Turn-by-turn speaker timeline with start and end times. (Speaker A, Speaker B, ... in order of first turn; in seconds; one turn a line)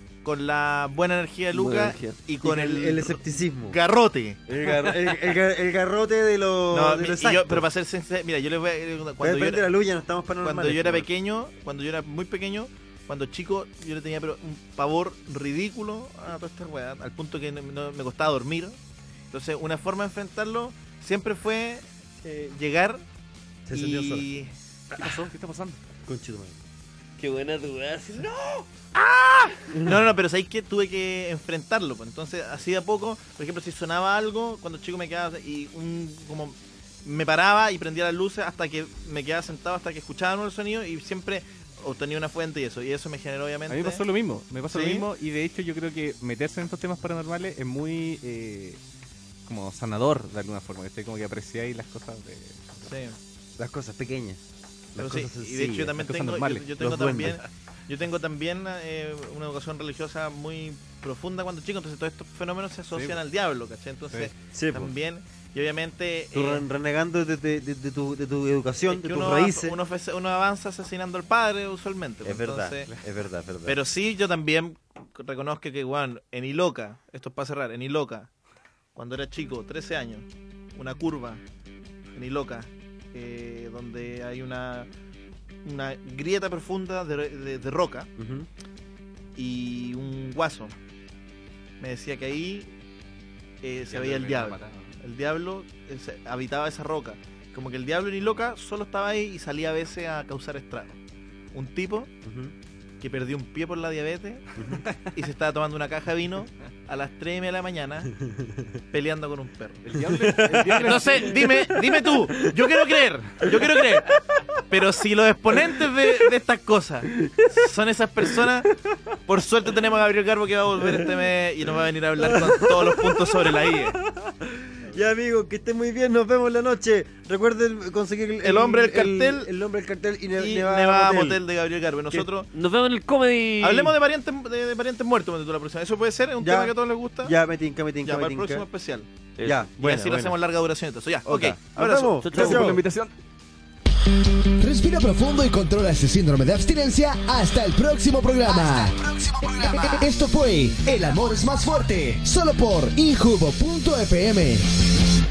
Speaker A: 0.2-4.4
Speaker B: 1.5-2.2
Speaker C: 2.4-3.8
Speaker C: 4.5-7.7
Speaker A: 6.7-9.7
Speaker C: 9.2-11.1
Speaker A: 10.4-18.8
Speaker A: 19.3-23.0
Speaker C: 23.7-24.3
Speaker A: 23.7-24.5
Speaker D: 24.9-25.8
Speaker C: 26.1-26.6
Speaker B: 27.2-28.7
Speaker A: 28.9-44.0
Speaker D: 43.7-48.8
Speaker A: 44.7-45.1
Speaker D: 49.5-52.9
Speaker A: 52.9-53.2
Speaker C: 53.6-56.0
Speaker A: 55.0-66.6
Speaker D: 56.0-57.3
Speaker C: 56.8-57.4
Speaker D: 62.9-63.2
Speaker C: 64.5-64.9
Speaker C: 66.3-69.8
Speaker A: 68.9-72.9
Speaker C: 72.2-73.8
Speaker A: 73.7-78.3
Speaker A: 79.0-80.2
Speaker A: 80.7-81.4
Speaker A: 82.2-84.9
Speaker A: 85.7-88.1
Speaker C: 88.2-88.5
Speaker A: 89.4-90.7
Speaker A: 91.8-92.7
Speaker A: 93.6-101.0
Speaker D: 93.9-94.9
Speaker A: 101.5-102.1
Speaker C: 102.2-102.5
Speaker A: 103.0-104.5
Speaker C: 104.6-104.8
Speaker A: 105.0-108.1
Speaker C: 108.2-108.7
Speaker A: 108.9-109.8
Speaker D: 109.8-111.7
Speaker C: 110.0-112.7
Speaker A: 110.7-118.7
Speaker C: 113.5-113.9
Speaker A: 119.3-124.0
Speaker C: 120.8-121.1
Speaker C: 122.2-131.4
Speaker A: 128.4-129.5
Speaker A: 130.4-132.5
Speaker B: 132.5-133.9
Speaker A: 133.6-137.3
Speaker C: 136.4-138.7
Speaker A: 138.0-139.1
Speaker B: 139.4-139.7
Speaker C: 139.4-140.4
Speaker A: 139.8-142.5
Speaker C: 141.2-142.8
Speaker B: 142.2-142.8
Speaker D: 142.2-143.1
Speaker E: 144.6-154.9